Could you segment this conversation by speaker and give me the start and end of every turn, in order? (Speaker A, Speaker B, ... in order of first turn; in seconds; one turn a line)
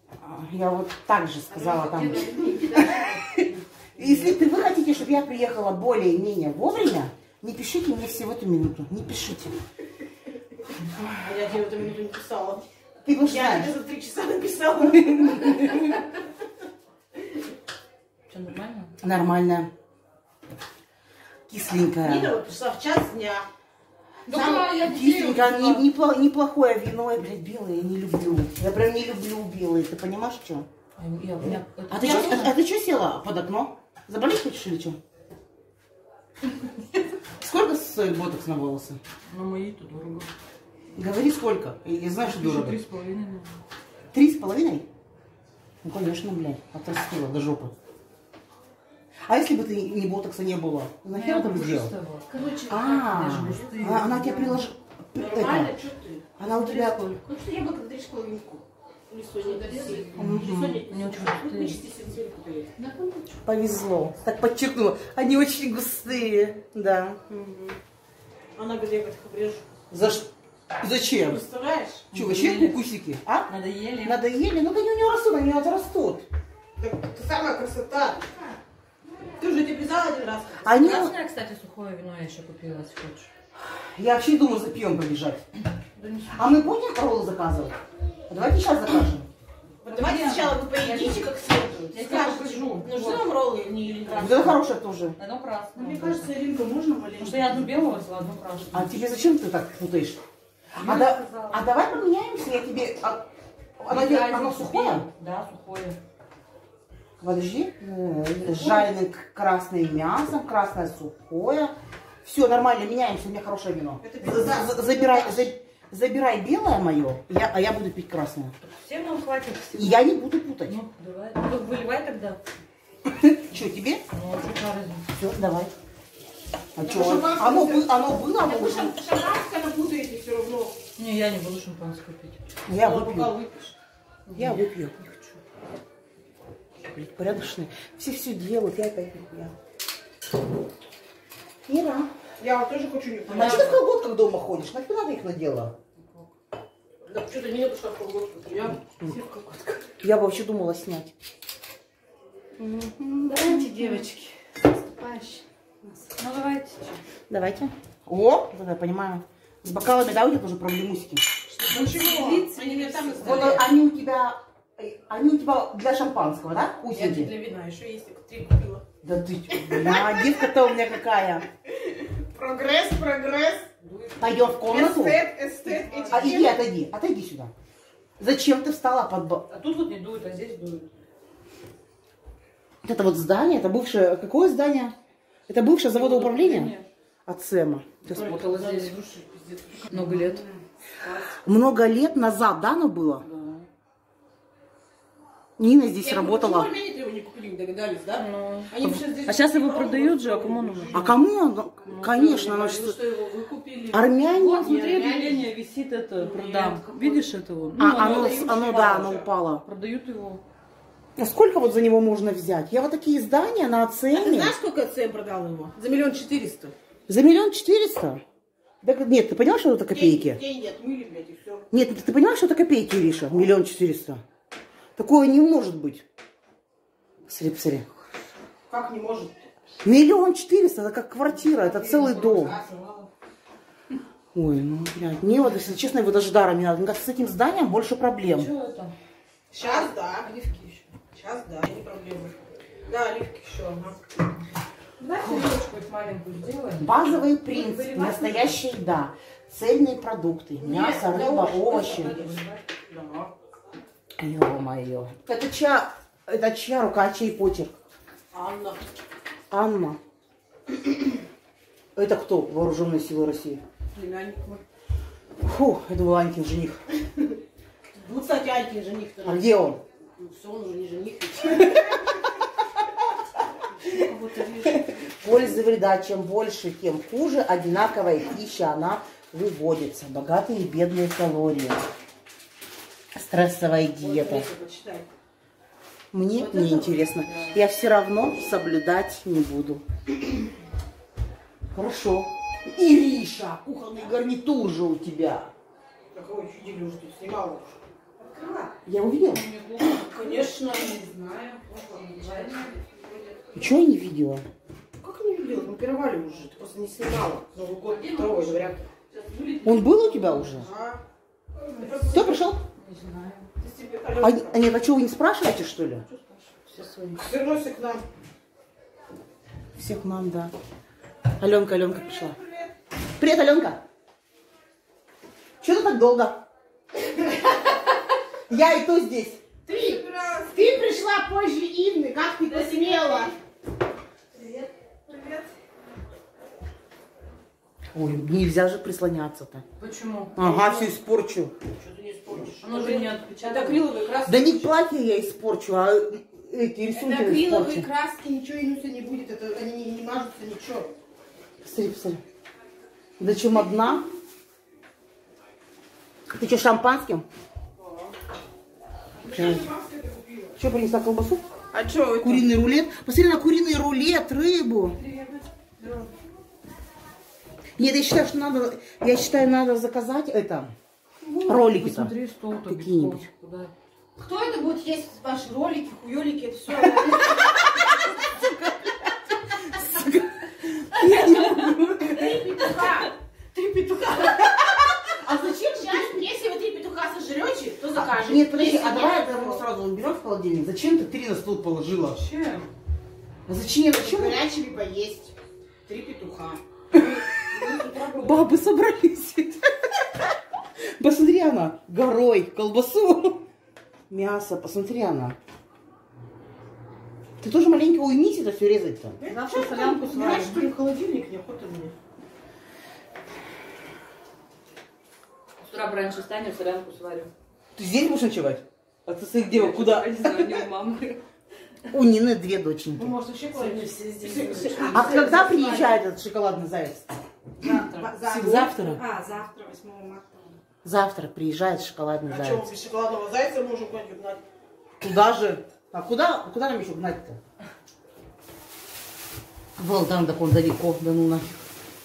Speaker A: 0.2-3.0
Speaker B: 1.5-2.8
Speaker C: 1.8-4.7
Speaker A: 4.0-9.6
Speaker B: 11.2-12.7
Speaker A: 13.0-13.7
Speaker B: 13.2-16.0
Speaker C: 18.3-18.9
Speaker A: 19.0-19.7
Speaker A: 21.5-22.4
Speaker B: 22.0-23.5
Speaker B: 24.3-24.8
Speaker C: 24.3-25.9
Speaker A: 24.7-30.7
Speaker C: 30.9-32.5
Speaker A: 31.4-35.0
Speaker A: 37.4-39.0
Speaker C: 39.3-40.3
Speaker A: 40.9-42.8
Speaker C: 42.2-43.6
Speaker A: 44.1-44.9
Speaker A: 45.8-47.7
Speaker A: 49.3-51.9
Speaker C: 51.1-52.5
Speaker B: 52.3-53.8
Speaker A: 52.6-55.7
Speaker C: 53.0-54.6
Speaker B: 55.1-62.7
Speaker A: 56.4-57.2
Speaker C: 59.5-61.8
Speaker A: 60.2-60.8
Speaker C: 62.8-63.4
Speaker A: 63.4-67.4
Speaker B: 67.4-67.8
Speaker B: 68.5-69.7
Speaker A: 69.9-70.3
Speaker A: 70.8-71.4
Speaker B: 71.2-72.1
Speaker C: 72.1-72.9
Speaker A: 72.1-73.5
Speaker C: 73.5-74.2
Speaker A: 74.0-76.2
Speaker B: 76.8-78.3
Speaker B: 79.4-80.8
Speaker A: 80.6-81.2
Speaker C: 80.7-83.3
Speaker A: 83.6-85.4
Speaker C: 86.0-86.4
Speaker A: 86.3-87.8
Speaker A: 88.3-89.3
Speaker B: 89.8-94.7
Speaker C: 89.9-91.2
Speaker C: 91.9-93.2
Speaker A: 94.1-95.2
Speaker C: 95.2-96.3
Speaker B: 95.7-97.8
Speaker C: 97.2-99.1
Speaker A: 98.7-100.2
Speaker C: 100.7-101.6
Speaker A: 100.8-103.2
Speaker A: 103.8-105.1
Speaker C: 103.9-106.0
Speaker A: 107.2-118.5
Speaker C: 108.5-108.9
Speaker B: 114.0-115.5
Speaker C: 118.6-120.1
Speaker A: 119.7-120.8
Speaker C: 120.6-122.4
Speaker A: 123.1-124.0
Speaker C: 124.1-125.0
Speaker A: 125.1-125.7
Speaker A: 126.8-128.9
Speaker B: 126.8-130.8
Speaker C: 130.9-132.4
Speaker A: 132.7-133.3
Speaker B: 132.7-133.7
Speaker C: 134.2-135.4
Speaker A: 134.3-134.9
Speaker A: 136.8-139.5
Speaker A: 141.7-142.1
Speaker B: 142.4-143.8
Speaker C: 143.3-143.7
Speaker A: 143.3-145.7
Speaker C: 145.9-146.3
Speaker B: 147.0-149.8
Speaker A: 150.0-151.1
Speaker A: 152.6-153.9
Speaker C: 153.2-155.4
Speaker B: 154.9-155.4
Speaker C: 156.1-157.0
Speaker A: 157.3-161.2
Speaker B: 161.5-163.6
Speaker C: 161.7-163.6
Speaker A: 163.2-167.3
Speaker B: 166.9-168.8
Speaker A: 169.0-171.4
Speaker B: 169.5-170.6
Speaker B: 171.9-173.7
Speaker C: 173.8-174.7
Speaker A: 174.2-175.2
Speaker B: 174.6-176.6
Speaker C: 175.6-176.5
Speaker A: 176.1-177.5
Speaker A: 178.2-179.4
Speaker C: 179.5-180.9
Speaker A: 182.8-184.9
Speaker A: 185.5-186.7
Speaker C: 185.9-186.9
Speaker A: 187.2-188.3
Speaker C: 188.1-188.9
Speaker B: 188.1-190.6
Speaker C: 189.9-190.4
Speaker C: 191.0-191.4
Speaker A: 191.4-193.2
Speaker C: 193.2-193.7
Speaker A: 195.6-196.7
Speaker B: 196.0-201.1
Speaker C: 198.1-201.2
Speaker A: 200.9-203.0
Speaker C: 201.8-202.6
Speaker B: 202.2-205.5
Speaker A: 203.9-204.7
Speaker C: 204.3-208.6
Speaker B: 206.2-209.3
Speaker A: 207.8-209.6
Speaker C: 209.6-210.4
Speaker A: 211.2-214.5
Speaker B: 214.1-216.7
Speaker A: 217.1-218.2
Speaker A: 218.8-220.4
Speaker B: 219.9-221.7
Speaker A: 221.7-224.2
Speaker A: 225.0-226.0
Speaker A: 227.3-227.9
Speaker B: 228.7-229.5
Speaker A: 229.8-232.6
Speaker B: 231.7-233.1
Speaker A: 234.3-238.5
Speaker C: 238.3-238.9
Speaker B: 239.5-240.3
Speaker C: 240.2-240.8
Speaker B: 241.1-242.3
Speaker B: 242.9-243.9
Speaker C: 245.0-248.6
Speaker A: 246.8-252.2
Speaker B: 250.6-253.3
Speaker C: 251.7-252.6
Speaker A: 254.2-257.7
Speaker B: 258.3-258.8
Speaker A: 259.5-260.0
Speaker A: 261.9-263.6
Speaker B: 263.9-264.6
Speaker A: 265.4-266.8
Speaker B: 267.9-269.5
Speaker A: 269.2-269.8
Speaker B: 270.2-271.9
Speaker B: 273.9-274.7
Speaker A: 274.6-281.8
Speaker A: 283.1-284.4
Speaker B: 284.0-285.1
Speaker A: 286.1-289.8
Speaker B: 286.3-287.0
Speaker C: 287.2-287.6
Speaker A: 291.7-295.5
Speaker B: 293.6-294.1
Speaker B: 296.1-298.7
Speaker A: 298.9-299.4
Speaker C: 299.2-300.8
Speaker B: 299.8-303.4
Speaker C: 301.9-302.7
Speaker A: 303.5-304.4
Speaker B: 305.0-308.9
Speaker C: 307.8-310.6
Speaker A: 309.6-310.7
Speaker B: 310.5-311.0
Speaker B: 311.7-312.5
Speaker A: 312.1-312.6
Speaker C: 312.7-313.5
Speaker B: 313.6-314.6
Speaker A: 314.2-316.0
Speaker C: 316.1-317.2
Speaker B: 317.2-318.0
Speaker A: 319.8-320.5
Speaker A: 321.4-322.3
Speaker B: 321.8-322.7
Speaker A: 323.2-323.8
Speaker A: 325.6-326.4
Speaker A: 328.5-329.5
Speaker B: 329.6-333.3
Speaker C: 332.5-333.3
Speaker B: 334.3-335.5
Speaker A: 337.9-339.6
Speaker C: 339.8-340.4
Speaker A: 340.4-341.5
Speaker B: 340.4-341.0
Speaker B: 341.7-344.5
Speaker C: 342.6-344.1
Speaker A: 344.2-347.9
Speaker B: 346.9-350.9
Speaker A: 351.6-352.2
Speaker A: 353.2-354.1
Speaker A: 356.3-357.2
Speaker B: 357.8-358.1
Speaker B: 359.2-360.6
Speaker A: 359.3-359.7
Speaker A: 360.6-361.4
Speaker B: 361.7-362.5
Speaker A: 362.2-365.0
Speaker B: 365.0-366.1
Speaker A: 367.8-370.7
Speaker C: 371.4-373.7
Speaker A: 371.5-372.1
Speaker A: 372.6-373.2
Speaker B: 374.2-378.3
Speaker A: 379.7-382.5
Speaker C: 381.0-381.7
Speaker B: 382.1-384.5
Speaker A: 385.2-386.3
Speaker B: 385.2-389.6
Speaker A: 387.9-392.2
Speaker C: 392.1-392.7
Speaker A: 393.5-394.4
Speaker B: 393.9-395.3
Speaker B: 395.9-398.5
Speaker A: 398.1-400.0
Speaker A: 400.8-403.4
Speaker A: 404.1-405.4
Speaker A: 407.4-409.2
Speaker B: 409.2-411.9
Speaker C: 409.2-410.7
Speaker C: 415.6-417.3
Speaker A: 417.8-420.6
Speaker C: 419.5-421.2
Speaker A: 421.9-423.1
Speaker B: 423.0-426.0
Speaker C: 423.5-425.5
Speaker A: 424.9-427.2
Speaker C: 427.6-428.1
Speaker B: 427.6-430.5
Speaker A: 428.2-429.0
Speaker A: 430.8-432.7
Speaker B: 432.3-434.4
Speaker A: 435.0-437.4
Speaker A: 439.8-441.6